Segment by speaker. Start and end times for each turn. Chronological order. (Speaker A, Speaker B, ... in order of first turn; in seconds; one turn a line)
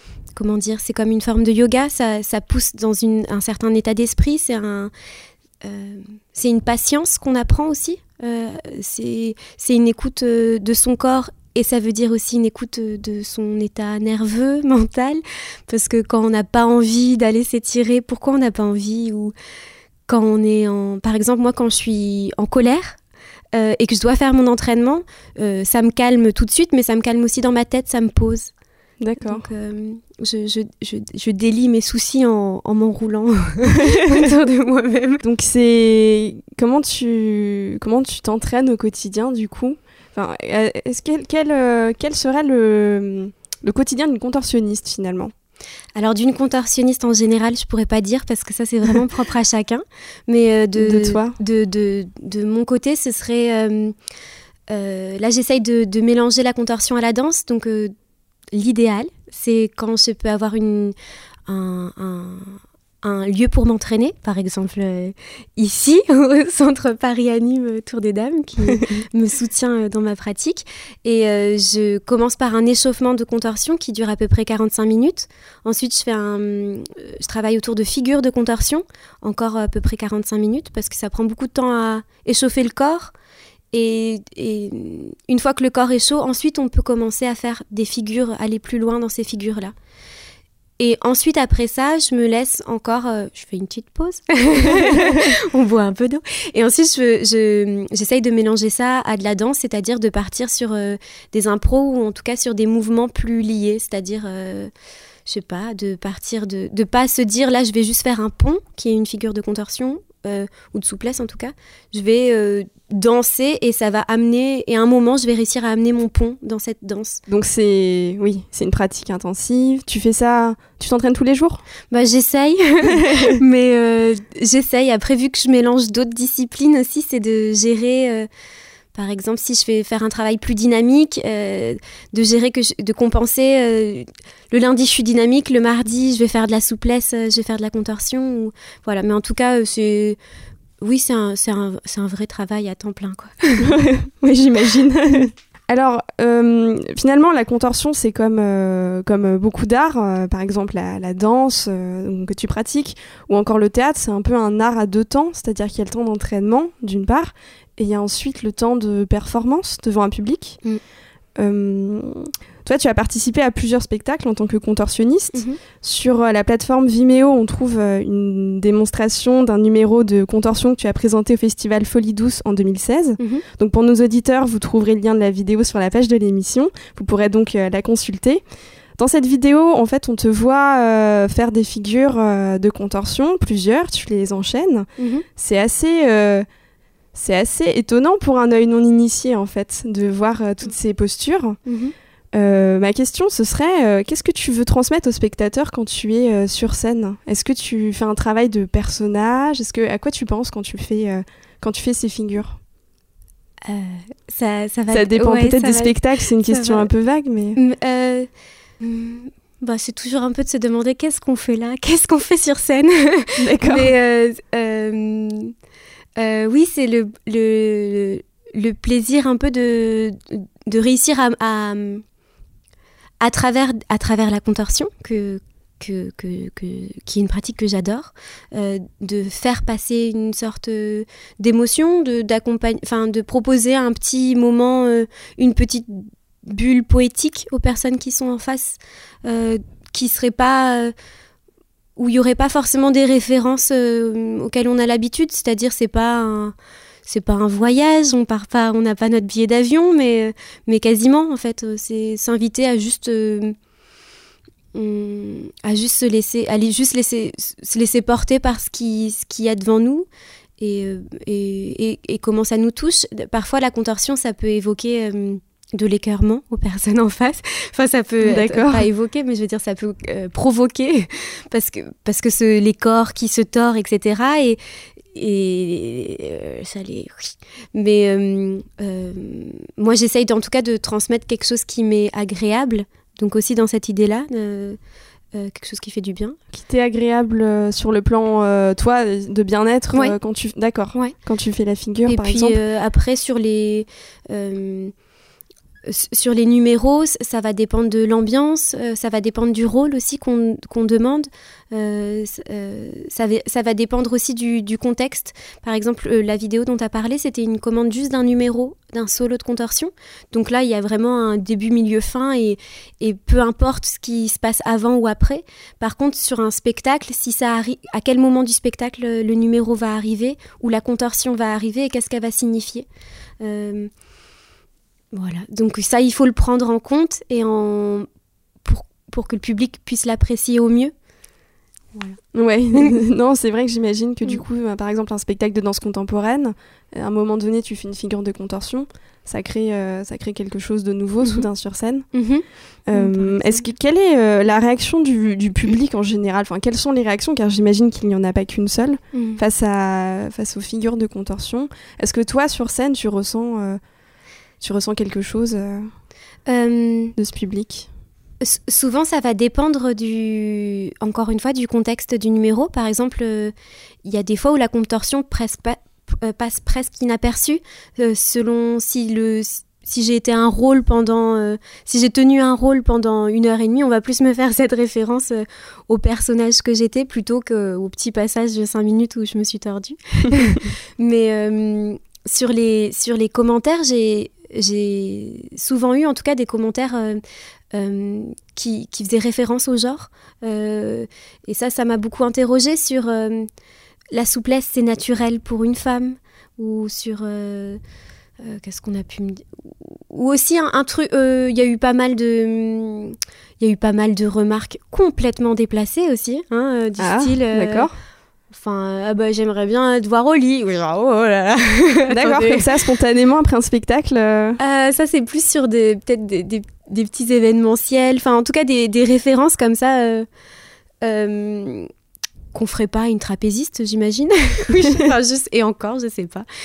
Speaker A: 0.3-4.9
Speaker A: 5.6-19.3
Speaker A: 20.1-23.0
Speaker A: 23.5-28.5
Speaker B: 29.0-29.4
Speaker A: 29.2-35.2
Speaker B: 33.7-34.3
Speaker B: 35.2-45.3
Speaker A: 46.0-54.0
Speaker B: 50.8-51.4
Speaker A: 54.7-57.9
Speaker A: 58.5-61.0
Speaker A: 61.5-83.1
Speaker B: 68.7-69.0
Speaker A: 83.7-89.7
Speaker A: 90.8-104.7
Speaker B: 94.6-95.3
Speaker A: 105.3-117.2
Speaker B: 117.3-121.7
Speaker A: 121.9-128.3
Speaker B: 122.9-123.4
Speaker A: 128.9-140.2
Speaker A: 140.8-143.8
Speaker B: 143.6-160.6
Speaker B: 161.4-178.4
Speaker A: 165.3-165.6
Speaker A: 173.2-173.4
Speaker B: 179.0-186.5
Speaker A: 185.0-185.2
Speaker B: 187.2-191.6
Speaker A: 191.7-191.9
Speaker B: 192.3-202.6
Speaker A: 203.7-206.9
Speaker B: 204.9-207.6
Speaker A: 207.6-215.5
Speaker B: 213.4-213.9
Speaker A: 216.2-222.0
Speaker A: 223.2-240.9
Speaker A: 242.0-246.6
Speaker A: 247.1-253.6
Speaker A: 254.7-260.1
Speaker A: 260.6-274.6
Speaker B: 268.2-268.9
Speaker A: 275.1-284.8
Speaker A: 285.3-286.4
Speaker B: 286.5-292.6
Speaker A: 292.1-294.9
Speaker A: 295.9-322.9
Speaker A: 323.4-323.9
Speaker A: 325.1-328.1
Speaker A: 328.6-330.9
Speaker B: 332.3-342.1
Speaker A: 341.2-341.5
Speaker A: 342.1-343.6
Speaker B: 342.9-353.8
Speaker A: 349.1-349.4
Speaker B: 354.6-355.9
Speaker A: 356.5-357.2
Speaker B: 357.2-357.9
Speaker A: 358.4-393.5
Speaker A: 394.1-397.8
Speaker A: 398.4-407.9
Speaker B: 407.0-407.9
Speaker A: 408.5-412.7
Speaker B: 412.1-414.6
Speaker A: 414.6-420.3
Speaker A: 421.0-421.9
Speaker A: 422.5-426.5